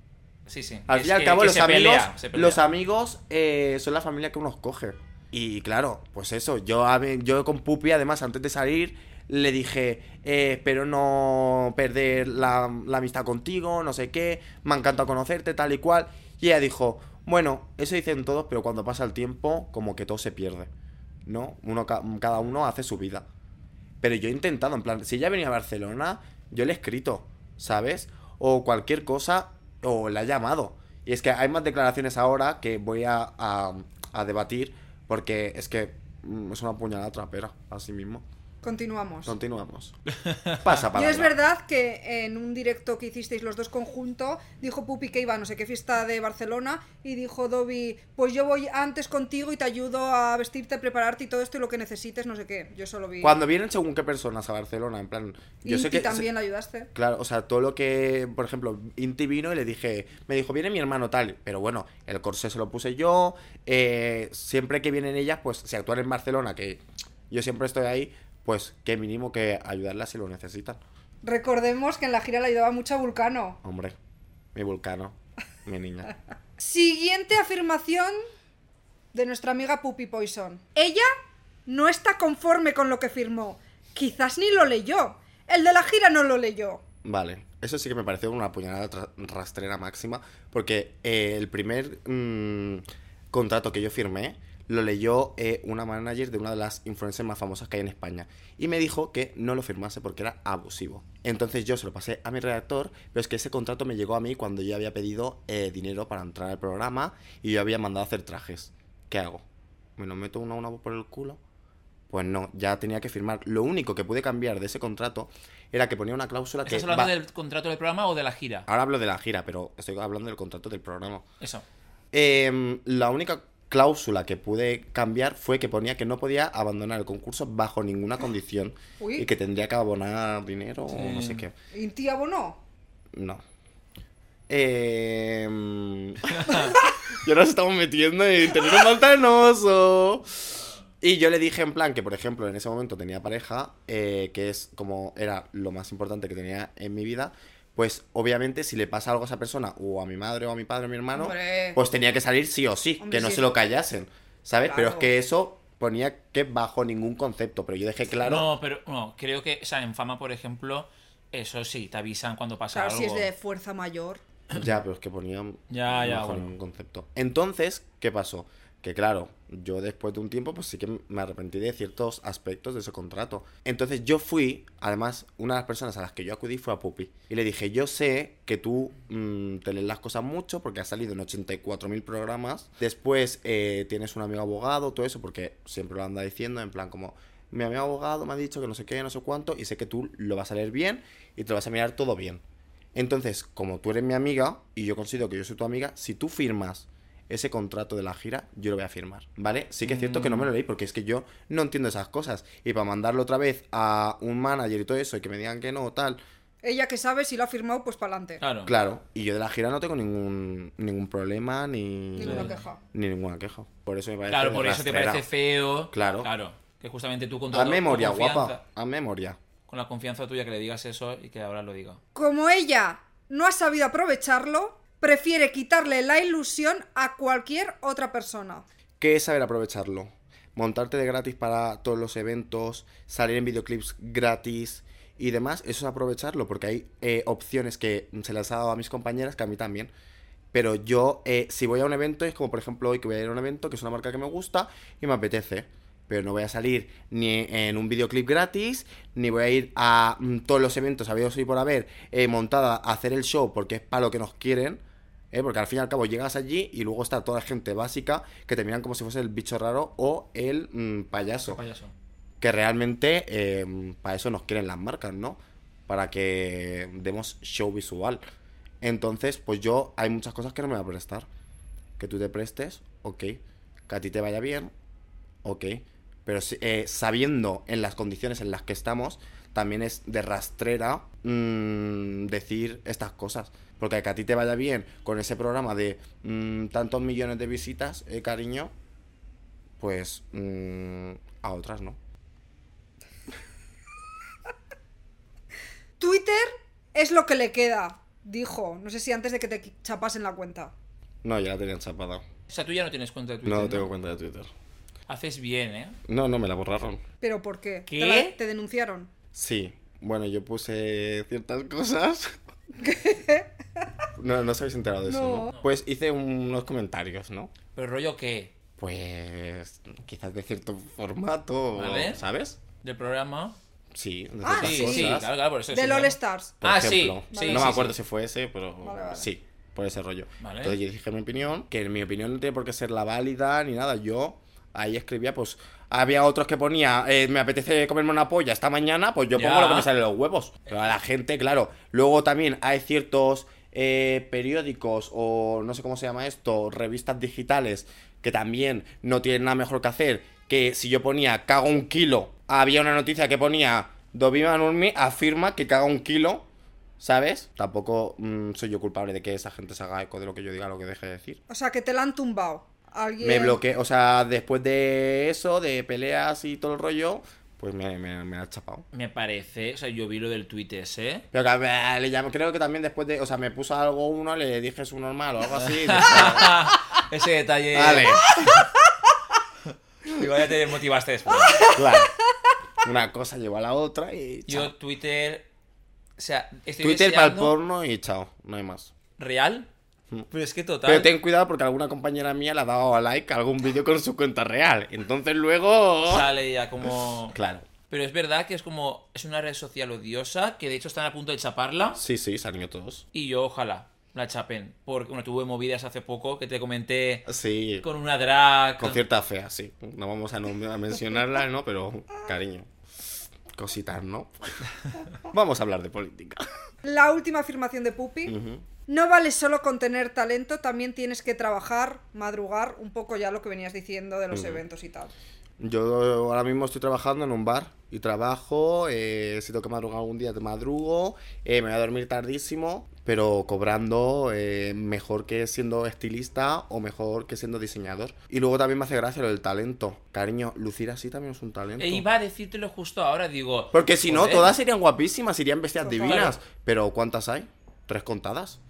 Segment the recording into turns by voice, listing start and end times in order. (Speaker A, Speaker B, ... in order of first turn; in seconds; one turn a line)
Speaker A: 0.5-2.6
Speaker B: 0.9-20.7
Speaker B: 21.2-23.2
Speaker B: 24.0-38.2
Speaker C: 38.6-39.4
Speaker B: 39.2-39.9
Speaker A: 40.3-40.7
Speaker B: 40.6-41.3
Speaker C: 40.9-53.4
Speaker B: 53.2-56.3
Speaker C: 55.6-56.9
Speaker B: 56.9-70.8
Speaker C: 71.2-73.6
Speaker B: 73.6-74.0
Speaker B: 74.5-76.1
Speaker C: 76.6-78.2
Speaker C: 79.1-81.1
Speaker C: 81.7-86.8
Speaker B: 87.0-109.4
Speaker B: 110.0-111.4
Speaker B: 112.1-117.1
Speaker A: 116.6-118.7
Speaker B: 118.7-121.2
Speaker B: 122.1-131.5
Speaker C: 129.0-129.3
Speaker A: 130.9-131.4
Speaker C: 131.7-132.6
Speaker B: 133.1-133.4
Speaker B: 134.5-158.5
Speaker A: 136.3-136.7
Speaker C: 151.1-151.8
Speaker C: 153.0-153.5
Speaker C: 154.7-155.1
Speaker A: 158.2-163.3
Speaker C: 162.7-164.2
Speaker B: 164.5-192.4
Speaker A: 165.7-166.5
Speaker B: 192.9-206.2
Speaker A: 199.8-200.5
Speaker C: 206.6-208.4
Speaker A: 208.4-208.7
Speaker B: 208.6-215.2
Speaker C: 212.2-212.8
Speaker A: 212.2-212.6
Speaker A: 214.3-218.6
Speaker B: 215.9-216.3
Speaker B: 217.5-219.4
Speaker A: 219.7-222.0
Speaker C: 222.1-228.6
Speaker B: 229.0-239.9
Speaker B: 240.5-261.6
Speaker A: 261.5-261.9
Speaker B: 262.4-268.2
Speaker B: 268.8-271.3
Speaker B: 272.0-274.7
Speaker B: 275.4-288.7
Speaker B: 289.8-292.0
Speaker C: 296.0-300.7
Speaker B: 301.2-302.2
Speaker A: 302.5-303.9
Speaker B: 303.4-304.5
Speaker A: 305.1-305.9
Speaker B: 306.1-307.0
Speaker C: 307.2-309.1
Speaker A: 307.9-308.3
Speaker B: 309.3-312.4
Speaker C: 312.8-313.8
Speaker B: 314.2-317.5
Speaker C: 315.1-315.5
Speaker A: 317.7-318.5
Speaker B: 318.8-322.6
Speaker A: 321.7-322.2
Speaker A: 322.8-323.6
Speaker B: 323.9-325.3
Speaker C: 324.4-326.6
Speaker A: 324.6-327.9
Speaker B: 326.6-356.4
Speaker C: 327.3-327.8
Speaker C: 328.8-329.3
Speaker A: 330.4-330.8
Speaker A: 339.4-339.9
Speaker B: 357.0-361.4
Speaker C: 361.5-363.6
Speaker B: 363.2-368.9
Speaker A: 368.9-371.2
Speaker B: 371.3-376.8
Speaker A: 375.6-378.7
Speaker B: 377.7-378.6
Speaker A: 379.7-381.7
Speaker C: 381.5-382.1
Speaker B: 381.6-382.1
Speaker B: 382.8-384.7
Speaker A: 384.5-385.4
Speaker A: 386.2-387.5
Speaker B: 386.8-388.9
Speaker A: 389.2-389.7
Speaker A: 390.3-391.1
Speaker B: 390.8-396.3
Speaker A: 396.0-397.4
Speaker B: 397.3-397.7
Speaker A: 397.9-402.0
Speaker B: 401.9-403.0
Speaker A: 403.1-407.3
Speaker B: 407.3-407.9
Speaker A: 407.8-409.0
Speaker B: 408.8-412.7
Speaker B: 413.5-416.5
Speaker C: 416.8-418.4
Speaker B: 418.2-418.6
Speaker C: 418.9-425.1
Speaker B: 424.3-424.6
Speaker B: 425.6-442.1
Speaker A: 441.8-444.5
Speaker B: 443.7-448.6
Speaker C: 445.8-446.3
Speaker A: 446.0-446.3